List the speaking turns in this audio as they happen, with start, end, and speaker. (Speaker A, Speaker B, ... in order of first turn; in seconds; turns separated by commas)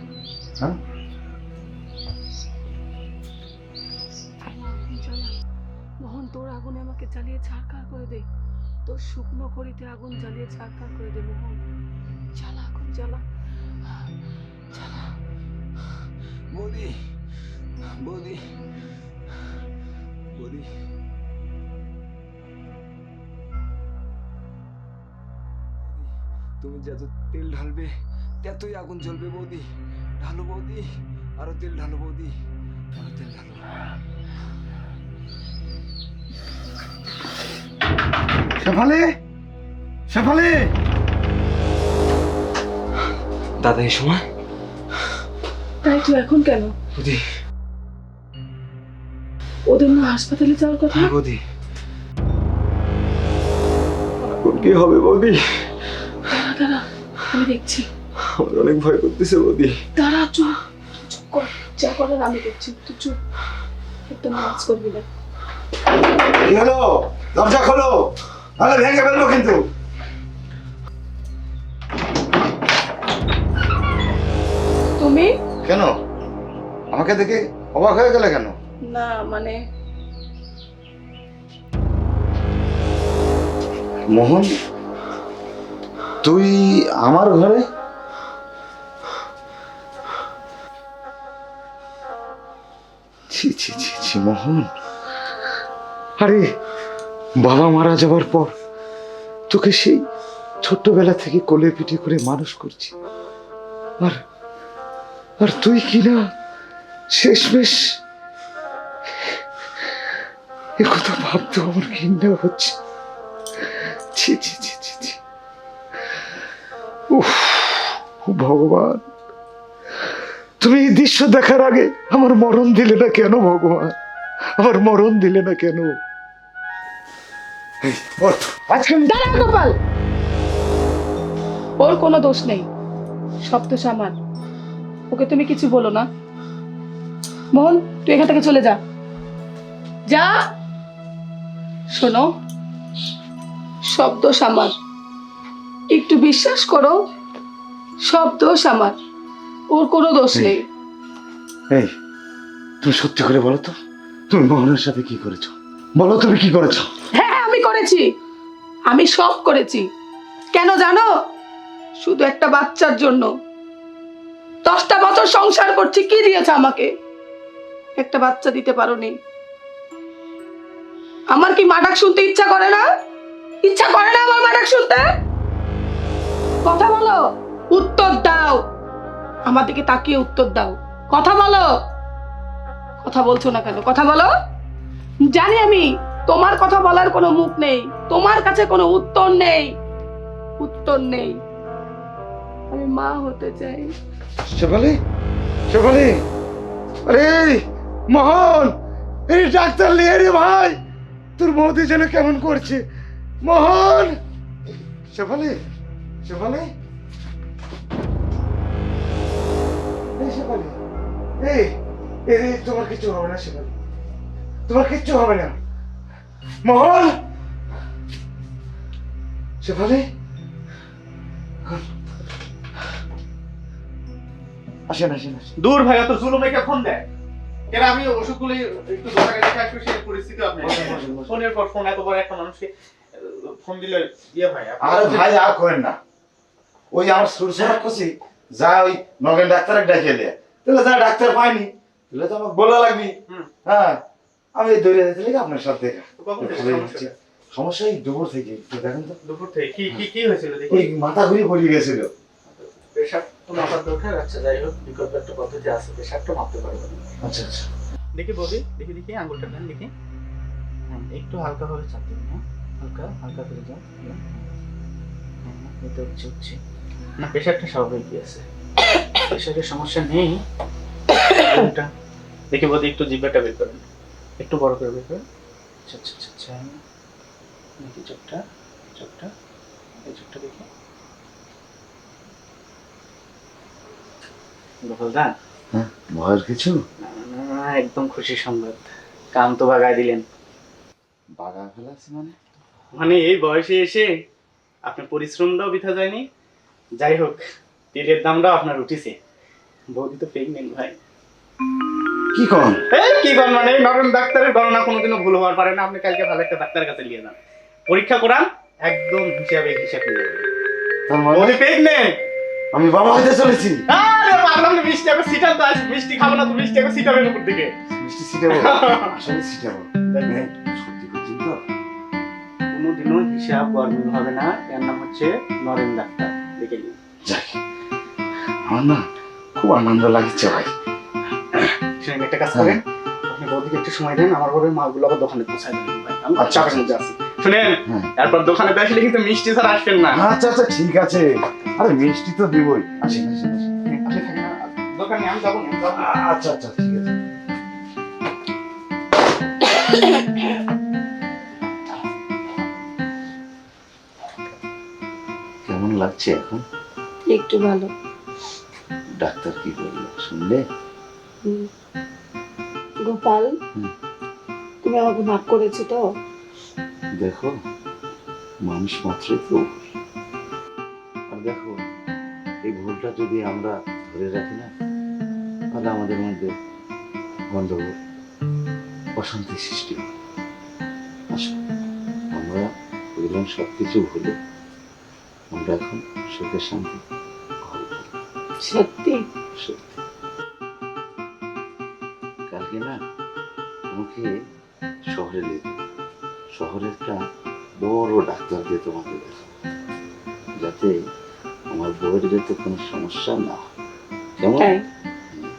Speaker A: 4.4-5.3, Speaker A: 6.0-8.3, Speaker A: 8.8-11.6, Speaker A: 12.3-13.2, Speaker A: 14.7-15.1, Speaker B: 16.5-16.9, Speaker B: 18.0-18.4, Speaker B: 20.3-20.7, Speaker B: 26.6-27.9, Speaker B: 28.4-29.7, Speaker B: 30.2-30.9, Speaker B: 31.4-32.3, Speaker B: 32.9-33.6, Speaker C: 38.6-39.0, Speaker C: 40.1-40.7, Speaker B: 43.6-44.2, Speaker A: 45.8-46.7, Speaker B: 46.9-47.2, Speaker A: 49.7-51.1, Speaker B: 50.9-51.4, Speaker B: 54.4-55.4, Speaker A: 56.2-57.9, Speaker B: 58.2-59.7, Speaker A: 60.0-63.2, Speaker A: 64.1-65.0, Speaker C: 66.2-69.6, Speaker A: 75.0-75.3, Speaker C: 75.6-75.9, Speaker C: 76.9-78.5, Speaker A: 78.9-79.6, Speaker C: 84.1-84.5, Speaker C: 86.2-87.6, Speaker C: 93.3-94.7, Speaker C: 96.2-96.5, Speaker C: 97.4-98.5, Speaker C: 99.5-100.0, Speaker C: 100.6-102.9, Speaker C: 105.4-106.2, Speaker C: 107.1-107.9, Speaker C: 110.8-112.7, Speaker C: 114.2-115.2, Speaker C: 117.1-119.0, Speaker C: 120.6-123.9, Speaker C: 124.6-125.9, Speaker C: 127.8-129.2, Speaker A: 129.1-129.7, Speaker A: 131.8-132.7, Speaker A: 133.4-134.1, Speaker A: 135.1-136.1, Speaker A: 137.5-138.8, Speaker A: 140.1-140.3, Speaker A: 141.9-142.3, Speaker A: 143.9-144.7, Speaker A: 145.9-147.0, Speaker A: 148.1-148.9, Speaker A: 149.7-150.6, Speaker C: 152.8-153.7, Speaker C: 154.3-156.9, Speaker A: 157.2-158.1, Speaker A: 158.9-159.8, Speaker A: 160.5-161.1, Speaker A: 162.0-163.3, Speaker A: 164.6-166.9, Speaker A: 168.0-169.1, Speaker A: 171.3-172.8, Speaker A: 173.6-175.0, Speaker A: 176.6-178.6, Speaker A: 179.4-181.7, Speaker A: 183.0-184.3, Speaker A: 185.2-189.7, Speaker A: 190.6-191.4, Speaker A: 192.7-193.9, Speaker C: 194.5-194.9, Speaker C: 195.7-196.1, Speaker C: 197.1-198.7, Speaker C: 199.3-200.8, Speaker C: 201.4-202.8, Speaker C: 203.4-204.2, Speaker C: 205.1-205.6, Speaker C: 206.2-206.7, Speaker C: 210.2-210.8, Speaker C: 211.4-211.8, Speaker C: 212.3-213.7, Speaker C: 214.7-215.6, Speaker C: 216.6-217.2, Speaker C: 219.6-220.0, Speaker C: 224.9-225.5, Speaker D: 225.6-227.1, Speaker D: 227.7-235.3, Speaker C: 230.6-231.3, Speaker C: 234.8-236.0, Speaker C: 236.9-243.1, Speaker C: 243.7-244.0, Speaker C: 244.6-249.2, Speaker D: 246.2-247.1, Speaker D: 249.2-250.9, Speaker C: 250.7-252.1, Speaker D: 252.6-257.1, Speaker C: 257.2-257.7, Speaker D: 258.1-259.9, Speaker D: 260.9-264.4, Speaker D: 265.4-266.6, Speaker D: 267.2-268.4, Speaker D: 269.2-270.4, Speaker D: 271.3-271.9, Speaker D: 272.5-273.9, Speaker D: 274.4-275.2, Speaker D: 275.9-276.8, Speaker D: 277.8-279.3, Speaker D: 280.0-280.7, Speaker D: 284.8-285.3, Speaker C: 285.7-286.8, Speaker D: 287.0-290.2, Speaker C: 291.4-292.3, Speaker D: 292.9-294.1, Speaker D: 294.8-296.2, Speaker D: 297.0-299.2, Speaker D: 299.9-301.0, Speaker C: 302.3-302.8, Speaker D: 302.9-310.5, Speaker C: 311.1-311.6, Speaker D: 311.3-312.1, Speaker C: 312.7-313.8, Speaker D: 313.9-317.7, Speaker C: 318.0-321.6, Speaker D: 318.5-319.1, Speaker D: 320.1-320.4, Speaker D: 322.7-326.9, Speaker C: 327.3-327.6, Speaker C: 328.6-329.0, Speaker C: 329.6-330.7, Speaker D: 331.6-340.2, Speaker C: 336.4-336.8, Speaker C: 340.2-341.2, Speaker C: 341.8-343.7, Speaker D: 343.9-346.1, Speaker C: 346.0-347.1, Speaker C: 355.6-356.6, Speaker A: 357.3-357.9, Speaker C: 359.2-360.6, Speaker A: 363.0-363.5, Speaker A: 364.8-366.0, Speaker C: 367.2-367.5, Speaker C: 368.7-369.6, Speaker C: 371.3-371.8, Speaker C: 372.7-374.7, Speaker C: 375.7-376.5, Speaker C: 377.5-377.9, Speaker C: 379.2-380.1, Speaker C: 382.3-382.6, Speaker C: 383.2-384.4, Speaker C: 385.5-387.0, Speaker C: 387.6-388.1, Speaker A: 388.6-389.2, Speaker C: 389.6-389.9, Speaker C: 392.5-393.0, Speaker C: 393.9-394.3, Speaker C: 395.1-395.8, Speaker C: 396.6-397.2, Speaker C: 397.8-399.4, Speaker C: 400.6-400.9, Speaker C: 401.7-403.6, Speaker C: 404.4-404.7, Speaker A: 404.6-404.8